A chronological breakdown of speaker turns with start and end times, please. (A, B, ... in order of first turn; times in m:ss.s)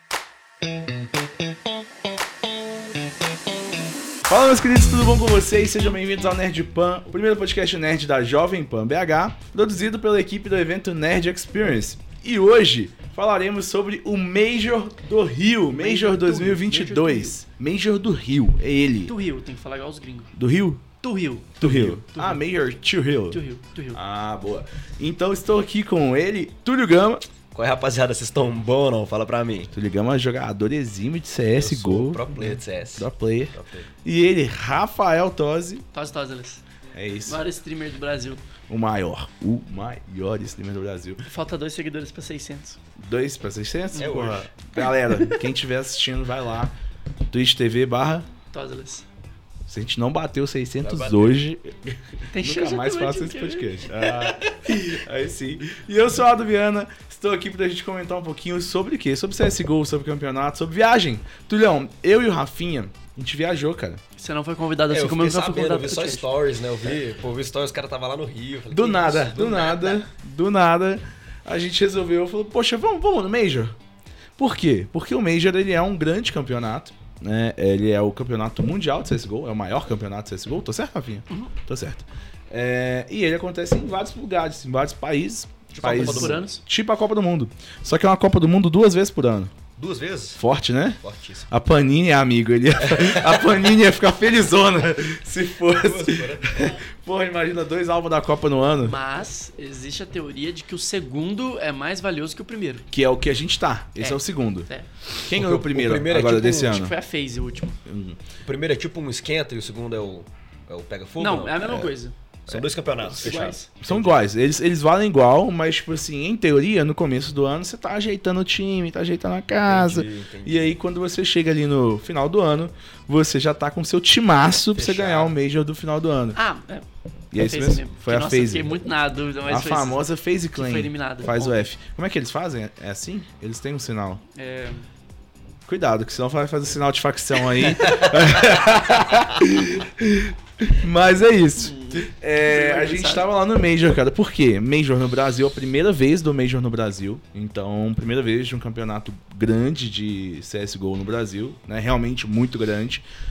0:04.3-0:19.1 A
0:15.8-0:17.4 B
0:19.1-0:20.4 B
0:20.4-0:20.8 A
0:21.0-0:22.4 B
0:21.6-0:23.4 A
0:23.3-0:24.0 B
0:23.9-0:27.2 A
0:27.5-0:29.7 C
0:29.7-0:35.8 A
0:31.6-0:33.9 C
0:35.9-0:36.6 B
0:36.9-0:37.4 A
0:37.3-0:38.4 B
0:38.7-0:41.2 A
0:41.2-0:42.8 B
0:43.0-0:46.8 A
0:43.9-0:44.5 C
0:47.3-0:48.3 A
0:48.5-0:49.1 B
0:49.7-1:04.0 A
0:50.8-0:51.4 C
0:52.3-0:53.8 B
0:54.0-0:54.5 C
1:04.2-1:06.2 B
1:04.9-1:10.1 C
1:08.7-1:13.8 A
1:14.4-1:29.5 A
1:25.7-1:26.4 C
1:25.8-1:26.6 B
1:29.8-1:30.4 C
1:30.4-1:39.0 A
1:31.0-1:31.5 C
1:32.8-1:33.4 C
1:35.7-1:36.8 C
1:38.8-1:42.9 B
1:42.9-1:44.7 A
1:44.0-1:44.9 B
1:45.2-1:47.0 A
1:45.2-1:46.9 C
1:46.6-1:47.8 B
1:47.9-1:48.2 A
1:48.4-1:51.9 C
1:51.2-1:52.1 B
1:52.5-1:54.2 C
1:52.5-2:06.4 A
1:53.2-1:53.7 B
1:59.6-2:00.8 C
2:04.7-2:05.3 C
2:06.4-2:11.6 B
2:07.3-2:08.8 A
2:09.5-2:14.2 A
2:14.4-2:14.9 B
2:15.7-2:33.0 A
2:21.6-2:23.3 B